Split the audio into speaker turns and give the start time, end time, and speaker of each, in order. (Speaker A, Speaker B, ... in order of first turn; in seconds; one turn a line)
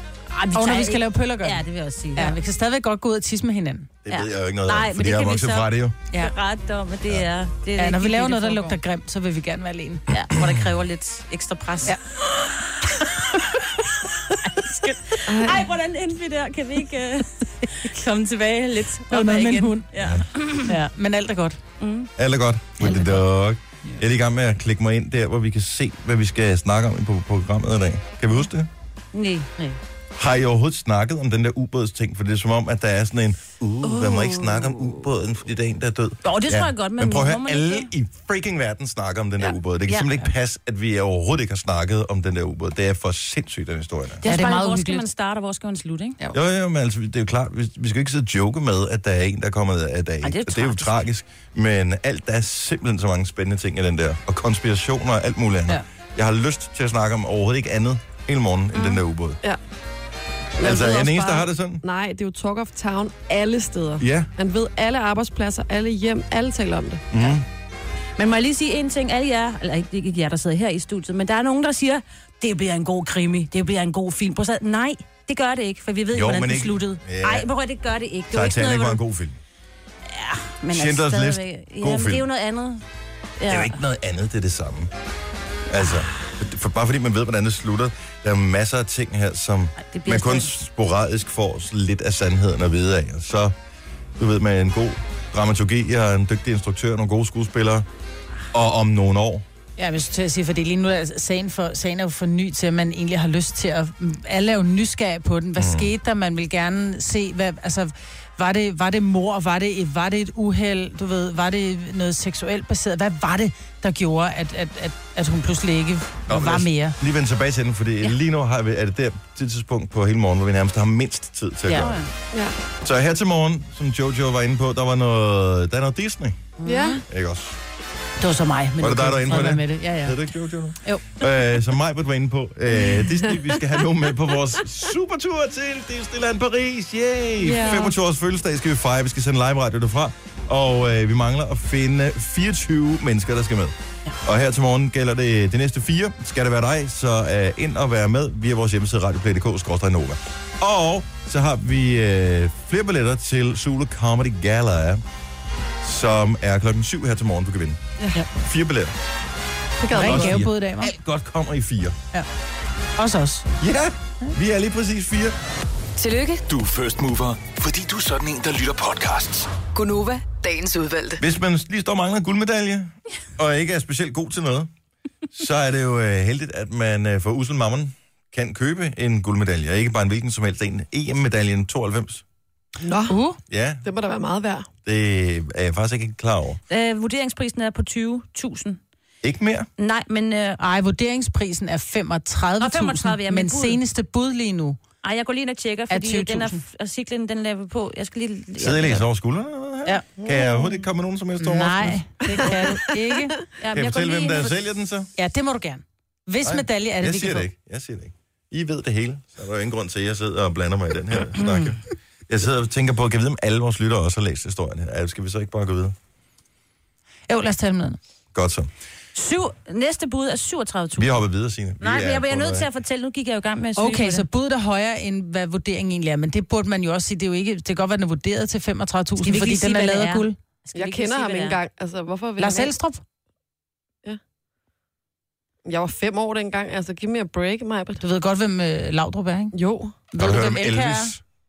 Speaker A: 0.3-2.4
Speaker B: 0.5-1.6
Speaker B: 2.2-3.9
Speaker C: 4.0-6.0
Speaker A: 4.1-8.8
Speaker B: 7.8-10.0
Speaker A: 10.1-13.4
Speaker A: 14.4-20.8
Speaker D: 15.3-15.7
Speaker B: 19.1-19.9
Speaker C: 20.0-20.3
Speaker B: 20.6-21.6
Speaker A: 21.8-22.1
Speaker C: 22.2-28.7
Speaker B: 22.8-23.1
Speaker A: 22.8-23.2
Speaker A: 29.1-29.8
Speaker C: 30.2-44.2
Speaker A: 33.8-35.0
Speaker A: 36.2-37.9
Speaker A: 39.4-40.3
Speaker A: 44.2-46.2
Speaker B: 44.3-45.1
Speaker C: 46.3-59.4
Speaker A: 50.2-50.8
Speaker A: 58.7-59.0
Speaker D: 60.6-67.0
Speaker C: 60.6-61.8
Speaker C: 64.0-64.3
Speaker C: 67.1-67.5
Speaker A: 68.2-79.0
Speaker C: 76.1-77.5
Speaker C: 78.3-79.4
Speaker A: 80.1-82.8
Speaker C: 80.7-82.3
Speaker A: 83.4-83.8
Speaker C: 83.5-84.9
Speaker C: 85.7-93.5
Speaker A: 89.9-90.5
Speaker C: 94.2-97.9
Speaker C: 98.5-99.5
Speaker B: 99.8-117.0
Speaker C: 105.6-105.9
Speaker C: 116.3-122.0
Speaker A: 121.7-122.1
Speaker C: 122.8-126.5
Speaker A: 126.6-127.0
Speaker D: 126.7-127.0
Speaker C: 127.1-127.6
Speaker B: 128.2-130.2
Speaker C: 128.8-155.0
Speaker A: 137.5-137.9
Speaker C: 155.8-158.9
Speaker D: 159.8-160.4
Speaker B: 159.9-160.9
Speaker C: 159.9-162.0
Speaker B: 163.0-163.5
Speaker C: 163.6-165.4
Speaker E: 166.0-166.4
Speaker F: 166.5-169.5
Speaker E: 169.7-171.2
Speaker C: 171.2-174.7
Speaker C: 175.3-182.2
Speaker D: 182.8-183.2
Speaker B: 183.1-183.4
Speaker C: 183.5-183.8
Speaker D: 183.8-184.7
Speaker C: 184.8-186.6
Speaker A: 186.7-188.8
Speaker C: 189.2-189.7
Speaker A: 189.8-190.6
Speaker B: 190.6-194.8
Speaker A: 192.6-193.8
Speaker A: 195.0-199.1
Speaker B: 195.9-196.6
Speaker C: 198.6-202.1
Speaker D: 200.2-200.5
Speaker B: 201.4-203.4
Speaker D: 202.2-202.9
Speaker A: 203.6-204.5
Speaker C: 203.7-205.1
Speaker B: 205.2-207.5
Speaker C: 206.4-215.9
Speaker B: 217.3-218.0
Speaker C: 218.3-218.7
Speaker A: 219.2-221.2
Speaker C: 221.0-222.7
Speaker A: 221.8-224.3
Speaker B: 223.8-230.4
Speaker A: 229.2-231.6
Speaker D: 230.7-232.7
Speaker B: 232.4-233.0
Speaker D: 235.7-238.0
Speaker B: 238.0-239.6
Speaker D: 239.5-240.0
Speaker B: 240.1-241.1
Speaker C: 240.2-241.2